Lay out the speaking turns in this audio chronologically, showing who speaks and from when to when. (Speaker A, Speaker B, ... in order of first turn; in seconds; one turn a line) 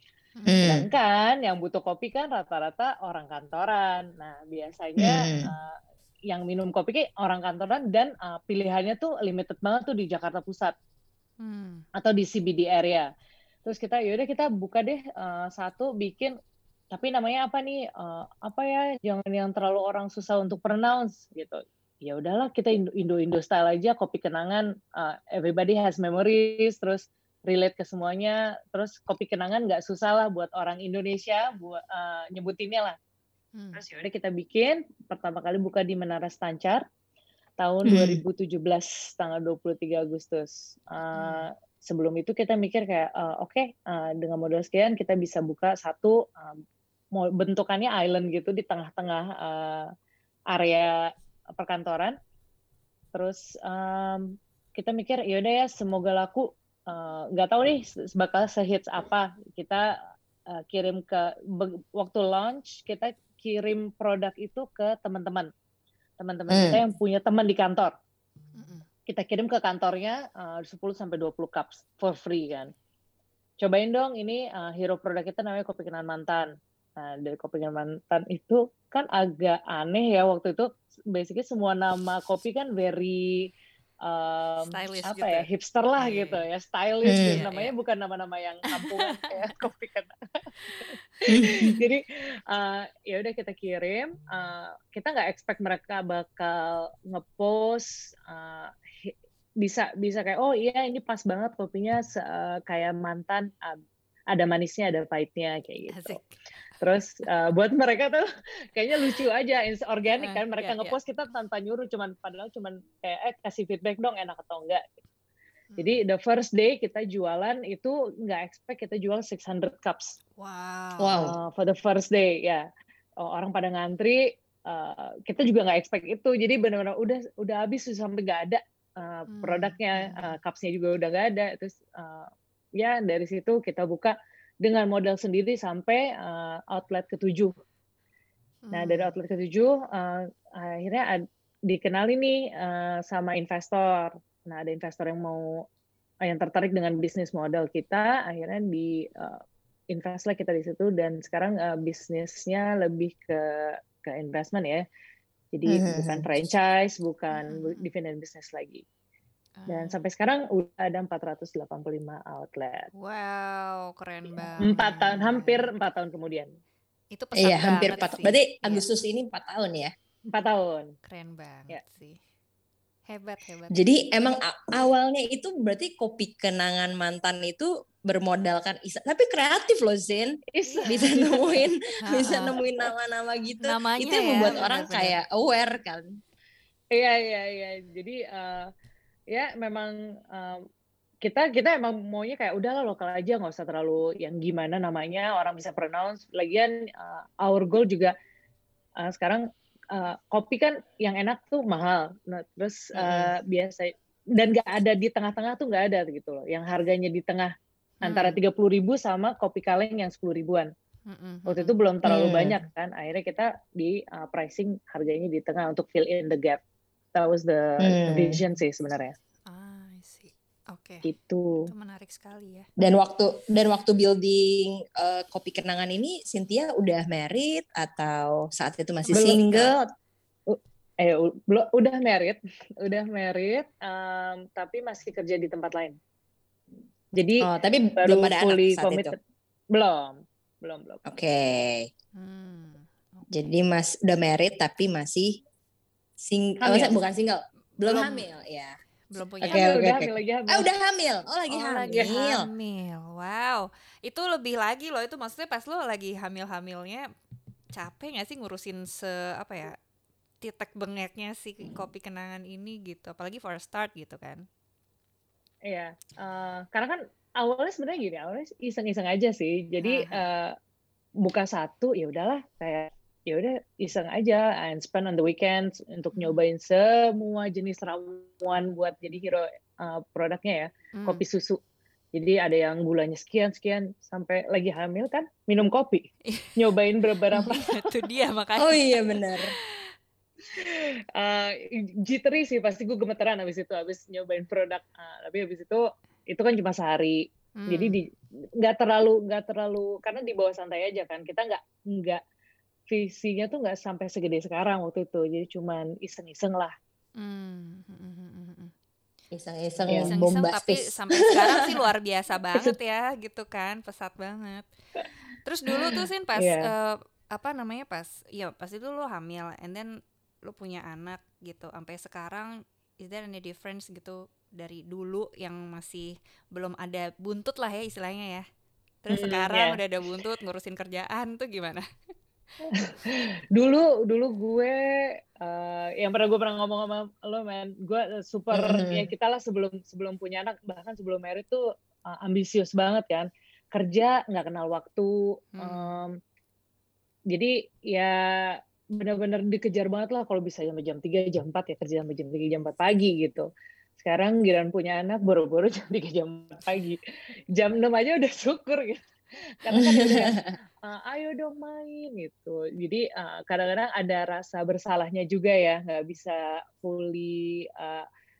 Speaker A: 0.4-0.8
Speaker B: 0.5-0.8
Speaker C: 0.6-5.8
Speaker B: 5.0-5.5
Speaker C: 6.3-10.7
Speaker A: 11.4-11.8
Speaker C: 11.9-13.1
Speaker C: 13.6-16.3
Speaker C: 16.9-33.0
Speaker A: 33.5-33.8
Speaker C: 33.7-36.8
Speaker C: 37.6-46.6
Speaker B: 37.9-38.2
Speaker A: 41.1-41.5
Speaker C: 47.1-49.9
Speaker C: 50.5-52.2
Speaker C: 53.1-60.0
Speaker C: 60.5-65.5
Speaker C: 66.2-67.9
Speaker B: 66.5-66.8
Speaker A: 68.6-68.8
Speaker C: 69.1-72.7
Speaker C: 73.6-83.5
Speaker C: 84.0-106.2
Speaker A: 84.7-85.5
Speaker A: 86.0-86.4
Speaker B: 87.0-87.4
Speaker A: 87.1-87.7
Speaker A: 88.8-89.1
Speaker B: 91.3-91.7
Speaker A: 105.9-106.4
Speaker C: 106.8-115.0
Speaker A: 110.2-111.0
Speaker C: 115.8-120.2
Speaker A: 120.4-121.2
Speaker B: 121.0-121.4
Speaker C: 121.2-122.7
Speaker C: 123.2-137.5
Speaker A: 129.3-130.3
Speaker A: 138.6-139.1
Speaker C: 138.7-145.6
Speaker C: 146.2-154.8
Speaker C: 155.5-158.8
Speaker B: 155.7-156.2
Speaker A: 157.3-157.9
Speaker A: 159.6-159.9
Speaker C: 159.7-162.9
Speaker A: 162.9-165.7
Speaker C: 164.6-166.5
Speaker A: 167.1-168.8
Speaker B: 167.3-169.9
Speaker C: 170.3-170.9
Speaker A: 171.0-172.2
Speaker A: 173.1-173.8
Speaker B: 173.7-186.2
Speaker C: 180.5-181.4
Speaker A: 180.6-181.1
Speaker A: 182.0-182.6
Speaker A: 183.6-185.1
Speaker C: 186.9-188.7
Speaker C: 189.3-190.6
Speaker C: 191.2-198.1
Speaker C: 199.0-210.7
Speaker B: 203.0-203.3
Speaker A: 208.0-208.4
Speaker A: 211.1-211.8
Speaker C: 211.4-216.6
Speaker B: 212.0-212.6
Speaker C: 217.1-219.1
Speaker B: 217.8-218.4
Speaker A: 219.5-221.1
Speaker C: 221.0-221.7
Speaker A: 221.6-222.7
Speaker B: 222.8-229.9
Speaker A: 229.1-229.6
Speaker C: 229.1-229.6
Speaker C: 230.5-236.0
Speaker C: 237.1-237.4
Speaker B: 237.4-239.1
Speaker C: 238.0-239.2
Speaker C: 239.7-241.0
Speaker B: 241.1-241.9
Speaker A: 242.1-243.3
Speaker B: 243.3-245.4
Speaker B: 246.2-248.8
Speaker C: 246.6-246.9
Speaker A: 247.8-248.3
Speaker A: 249.1-250.0
Speaker B: 249.4-252.5
Speaker C: 249.5-250.7
Speaker A: 251.5-257.1
Speaker A: 257.7-259.8
Speaker A: 260.4-264.4
Speaker C: 265.7-270.5
Speaker A: 269.8-270.2
Speaker C: 271.2-281.6
Speaker A: 276.1-276.4
Speaker A: 280.9-281.2
Speaker C: 282.1-286.0
Speaker A: 286.3-286.5
Speaker C: 286.6-287.8
Speaker A: 287.3-289.9
Speaker B: 288.6-289.5
Speaker C: 290.5-302.2
Speaker A: 297.6-298.0
Speaker C: 302.9-306.7
Speaker A: 307.2-308.7
Speaker B: 309.3-311.8
Speaker A: 309.9-314.7
Speaker A: 315.4-328.4
Speaker C: 315.7-316.7
Speaker A: 329.0-331.8
Speaker C: 329.1-329.8
Speaker C: 332.6-346.1
Speaker B: 338.5-339.1
Speaker A: 345.6-345.9
Speaker C: 347.3-357.0
Speaker C: 357.5-359.1
Speaker C: 359.6-368.0
Speaker B: 359.7-360.6